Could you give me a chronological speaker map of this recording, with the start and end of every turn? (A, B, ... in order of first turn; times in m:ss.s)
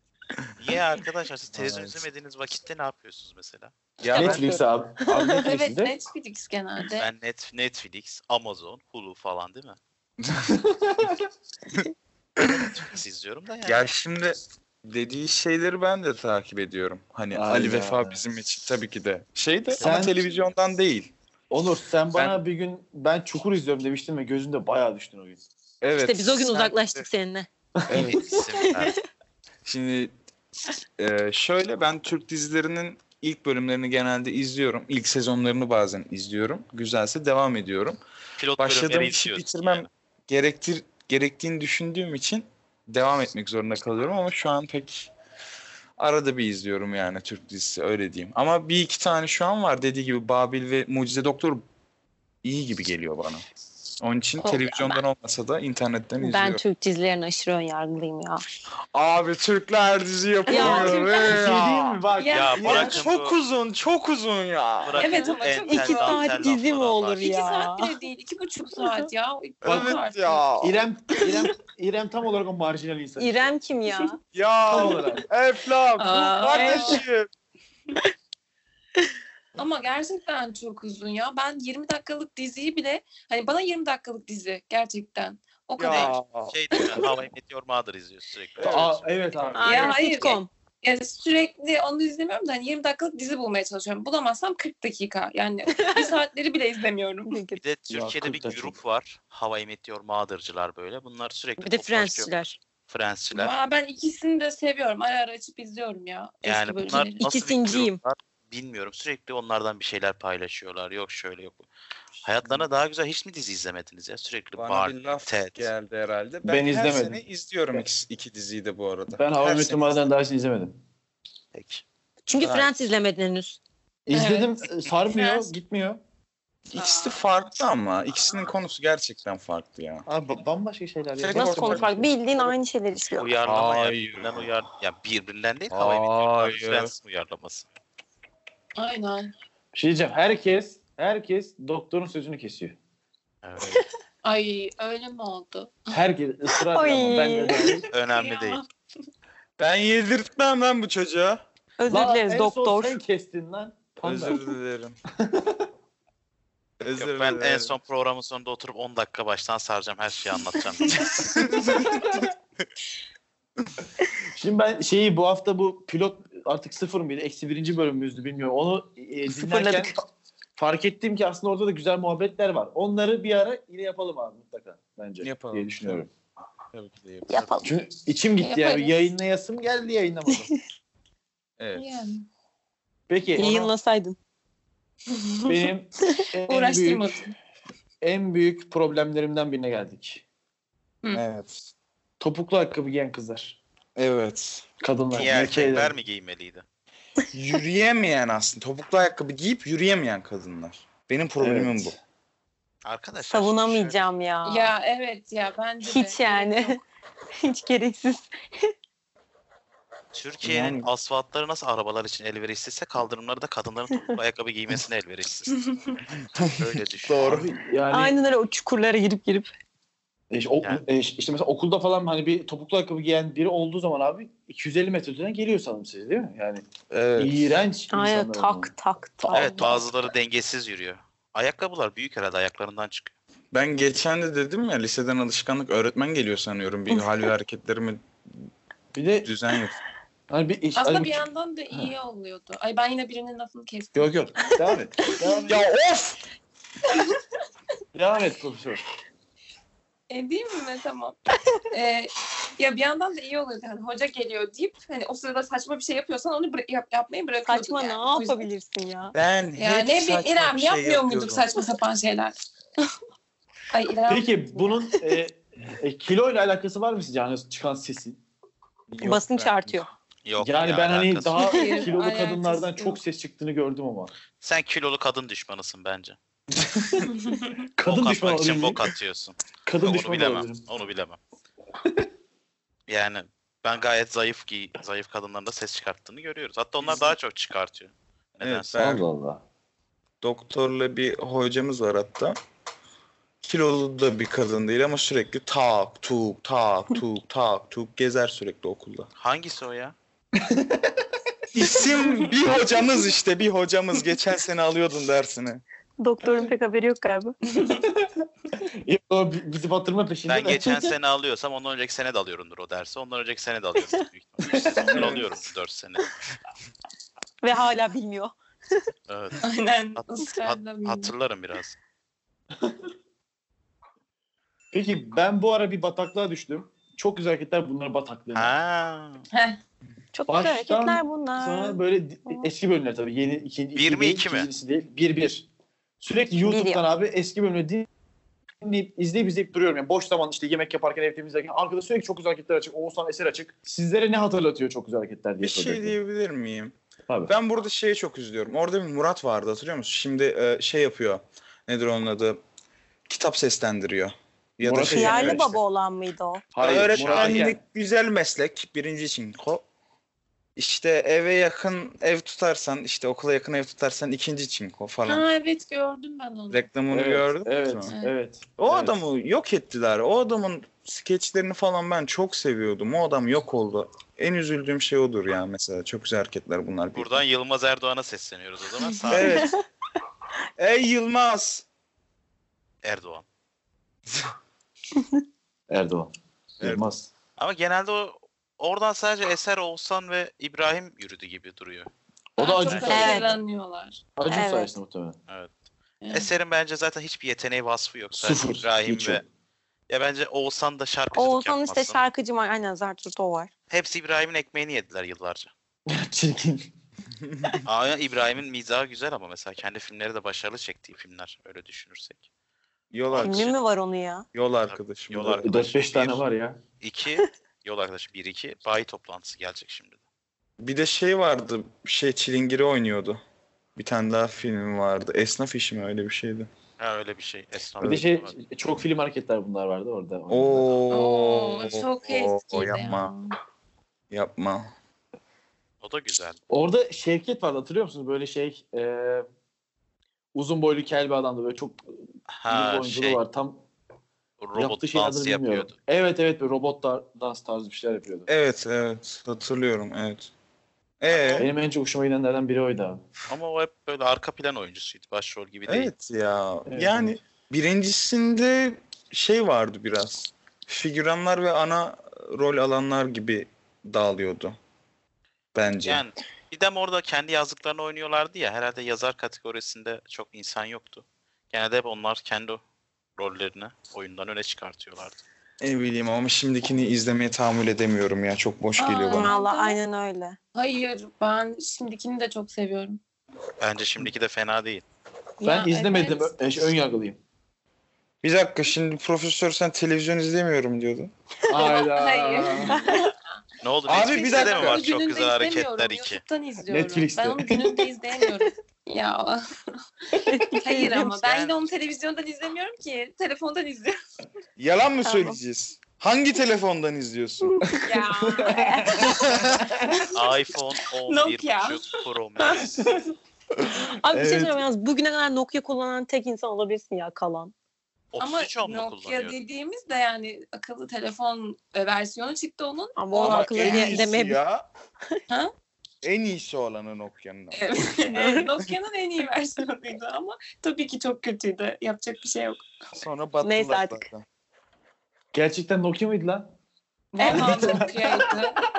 0:00.6-0:03.7 A
0:01.5-0:02.0 B
0:04.0-0:04.6 B
0:04.1-0:05.9 C
0:05.1-0:07.1 D
0:07.0-0:09.8 A
0:10.2-0:10.5 B
0:10.5-0:11.3 C
0:12.4-0:13.9 A
0:12.4-0:12.7 B
0:13.6-0:21.1 B
0:17.3-0:18.2 C
0:19.7-0:20.2 C
0:21.5-0:25.4 C
0:22.1-0:22.4 B
0:25.8-0:27.0 B
0:26.0-0:27.5 E
0:27.8-0:28.4 C
0:27.9-0:28.2 B
0:28.1-0:28.9 A
0:28.6-0:29.0 E
0:29.6-0:30.1 B
0:31.0-0:38.0 B
0:38.4-0:39.9 A
0:38.6-0:45.1 B
0:46.0-0:51.6 B
0:52.4-0:53.4 B
0:54.0-0:56.6 B
0:54.4-0:55.0 E
0:56.2-0:58.4 E
0:58.9-1:02.0 B
1:00.5-1:01.3 E
1:00.5-1:03.0 C
1:02.2-1:03.0 D
1:02.3-1:03.4 A
1:02.7-1:05.2 B
1:04.8-1:07.5 A
1:05.0-1:06.5 D
1:05.6-1:07.9 E
1:07.2-1:10.5 D
1:09.6-1:10.8 B
1:10.6-1:13.5 C
1:13.2-1:14.2 E
1:14.3-1:17.3 B
1:14.7-1:15.2 C
1:16.0-1:17.0 D
1:16.5-1:17.0 E
1:19.6-1:26.2 D
1:25.8-1:26.6 B
1:25.9-1:29.0 A
1:28.6-1:29.0 B
1:28.6-1:30.0 C
1:29.6-1:30.5 E
1:29.6-1:37.4 D
1:35.8-1:36.2 E
1:37.2-1:37.6 E
1:37.6-1:42.3 A
1:37.9-1:38.8 C
1:41.6-1:42.6 E
1:42.9-1:43.5 A
1:43.3-1:47.2 D
1:46.4-1:51.7 A
1:47.2-1:48.0 E
1:52.2-1:55.7 A
1:54.6-2:00.0 B
1:56.4-1:57.2 C
1:59.1-2:00.8 C
2:01.5-2:01.8 A
2:02.3-2:03.6 E
2:02.4-2:02.7 B
2:04.0-2:06.0 C
2:04.1-2:05.5 D
2:06.7-2:10.0 B
2:06.7-2:07.2 D
2:10.0-2:12.5 C
2:11.2-2:11.9 B
2:11.3-2:13.4 E
2:13.2-2:17.7 A
2:13.4-2:14.5 B
2:15.7-2:16.9 B
2:18.8-2:19.3 D
2:19.7-2:22.8 C
2:23.4-2:23.8 A
2:24.2-2:26.0 D
2:25.9-2:27.9 C
2:26.7-2:27.8 E
2:27.9-2:28.6 A
2:28.1-2:28.6 D
2:29.6-2:31.4 B
2:31.8-2:33.0 E
2:31.9-2:34.4 C
2:34.0-2:35.0 B
2:35.2-2:35.6 C
2:36.8-2:37.7 B
2:37.0-2:41.0 A
2:40.9-2:42.3 B
2:44.3-2:50.0 C
2:49.3-2:50.0 E
2:50.6-2:56.1 C
2:55.2-2:56.0 B
2:56.7-2:57.4 B
2:57.3-2:57.7 E
2:57.6-3:00.6 C
2:58.4-2:59.1 D
3:01.6-3:01.9 B
3:01.7-3:02.2 D
3:03.1-3:03.7 C
3:03.4-3:04.2 E
3:05.1-3:05.6 D
3:05.4-3:07.2 C
3:06.4-3:07.3 D
3:08.0-3:10.2 C
3:11.1-3:11.7 B
3:12.2-3:13.6 C
3:14.0-3:14.7 B
3:14.8-3:15.9 C
3:15.1-3:16.6 A
3:17.3-3:21.9 B
3:21.4-3:22.0 C
3:22.8-3:24.0 A
3:23.2-3:24.7 E
3:24.4-3:26.8 D
3:25.8-3:26.8 E
3:27.4-3:28.7 E
3:30.1-3:35.6 A
3:30.4-3:30.9 B
3:36.4-3:37.5 B
3:36.4-3:37.4 A
3:37.2-3:38.1 C
3:37.9-3:39.5 E
3:40.3-3:46.6 C
3:46.9-3:47.6 B
3:47.2-3:49.8 C
3:47.9-3:49.8 E
3:49.3-3:53.1 A
3:53.5-3:58.0 B
3:58.9-3:59.3 C
3:59.2-3:59.8 B
4:00.3-4:01.9 C
4:00.7-4:05.3 D
4:03.9-4:05.6 C
4:05.4-4:06.2 B
4:06.9-4:07.2 D
4:07.9-4:08.8 C
4:10.1-4:11.2 D
4:11.7-4:18.5 D
4:17.4-4:19.1 E
4:19.1-4:21.5 B
4:19.6-4:22.4 D
4:23.7-4:24.8 D
4:24.1-4:28.2 C
4:28.9-4:29.8 B
4:29.0-4:29.9 E
4:30.2-4:31.4 A
4:30.4-4:34.1 C
4:31.4-4:33.0 D
4:34.4-4:36.2 A
4:36.5-4:37.1 C
4:37.1-4:37.6 D
4:37.8-4:38.9 C
4:37.8-4:41.2 A
4:39.6-4:40.6 C
4:42.9-4:48.8 A
4:48.4-4:49.0 B
4:48.8-4:49.4 C
4:50.2-4:52.4 B
4:53.4-4:59.1 B
4:59.2-4:59.9 A
5:00.3-5:01.1 C
5:01.5-5:05.6 B
5:06.0-5:07.3 E
5:07.6-5:10.8 C
5:10.3-5:16.1 A
5:14.4-5:15.1 C
5:14.9-5:15.3 B
5:17.4-5:18.3 E
5:19.1-5:19.4 A
5:19.4-5:21.1 D
5:20.0-5:21.8 A
5:22.6-5:22.9 C
5:24.7-5:28.5 C
5:28.3-5:29.2 A
5:29.3-5:29.6 D
5:30.1-5:32.4 E
5:30.3-5:35.4 C
5:33.8-5:34.5 A
5:36.0-5:37.9 C
5:36.4-5:36.8 E
5:38.6-5:45.9 C
5:45.4-5:46.8 B
5:47.1-5:47.3 C
5:47.3-5:52.4 B
5:53.1-5:55.6 B
5:54.6-5:55.5 C
5:54.8-5:56.4 E
5:56.5-5:57.6 C
5:56.6-5:57.5 A
5:56.6-5:59.6 B
6:00.6-6:05.2 B
6:05.1-6:06.7 D
6:06.5-6:07.9 B
6:06.9-6:09.0 C
6:07.9-6:08.1 D
6:08.6-6:17.2 B
6:16.9-6:19.5 A
6:19.1-6:19.6 B
6:19.3-6:19.6 E
6:20.6-6:21.6 B
6:22.8-6:23.2 A
6:25.7-6:27.1 C
6:26.6-6:26.9 B
6:27.4-6:31.9 A
6:32.4-6:33.3 C
6:32.4-6:34.0 D
6:32.6-6:33.0 A
6:32.8-6:33.4 E
6:34.2-6:35.2 C
6:34.3-6:34.7 E
6:36.0-6:36.3 D
6:36.1-6:39.2 A
6:38.2-6:39.2 C
6:39.9-6:42.0 A
6:41.1-6:43.5 E
6:43.7-6:45.5 A
6:45.9-6:46.7 C
6:47.2-6:47.6 B
6:47.6-6:52.2 A
6:52.9-6:53.5 B
6:53.1-6:53.5 A
6:53.2-6:54.2 E
6:54.3-6:55.6 B
6:54.7-6:56.2 A
6:55.4-6:56.6 C
6:56.8-7:00.0 A
7:00.6-7:03.2 B
7:03.8-7:06.5 B
7:06.8-7:08.4 A
7:07.8-7:10.8 C
7:10.3-7:13.1 B
7:10.9-7:13.4 D
7:14.1-7:14.7 B
7:15.8-7:16.4 A
7:16.5-7:19.2 C
7:20.3-7:21.9 C
7:22.4-7:23.2 A
7:22.5-7:23.6 C
7:24.4-7:25.7 A
7:24.6-7:28.3 C
7:28.3-7:30.3 B
7:31.0-7:31.5 B
7:31.1-7:31.5 A
7:31.4-7:33.0 C
7:33.3-7:35.9 A
7:35.7-7:44.6 B
7:36.7-7:37.1 C
7:45.5-7:46.0 B
7:45.8-7:52.6 A
7:53.2-7:55.2 A
7:55.6-7:59.3 B
7:58.8-7:59.8 D
7:59.1-8:00.4 E
8:00.5-8:03.0 D
8:03.6-8:04.8 A
8:05.4-8:06.3 D
8:05.4-8:07.2 C
8:08.2-8:11.1 B
8:11.5-8:12.9 C
8:11.5-8:13.1 D
8:12.7-8:13.0 E
8:13.6-8:16.2 A
8:13.9-8:14.9 B
8:13.9-8:19.4 D
8:16.7-8:17.8 C
8:20.2-8:21.2 E
8:20.6-8:24.0 D
8:21.2-8:21.5 A
8:24.6-8:27.8 B
8:25.0-8:25.4 E
8:27.8-8:29.3 D
8:28.1-8:29.8 C
8:28.4-8:29.2 E
8:29.0-8:29.6 B
8:29.9-8:30.2 D
8:30.1-8:32.8 A
8:31.1-8:33.1 D
8:33.9-8:37.5 E
8:34.1-8:34.6 C
8:38.1-8:39.4 A
8:38.2-8:44.1 D
8:43.0-8:44.4 E
8:43.2-8:44.6 B
8:46.0-8:47.6 B
8:47.5-8:52.6 D
8:48.1-8:48.5 E
8:52.9-8:54.2 B
8:53.4-8:54.1 E
8:55.3-8:56.5 C
8:57.1-8:58.6 D
8:57.2-8:57.8 E
8:57.2-8:58.5 C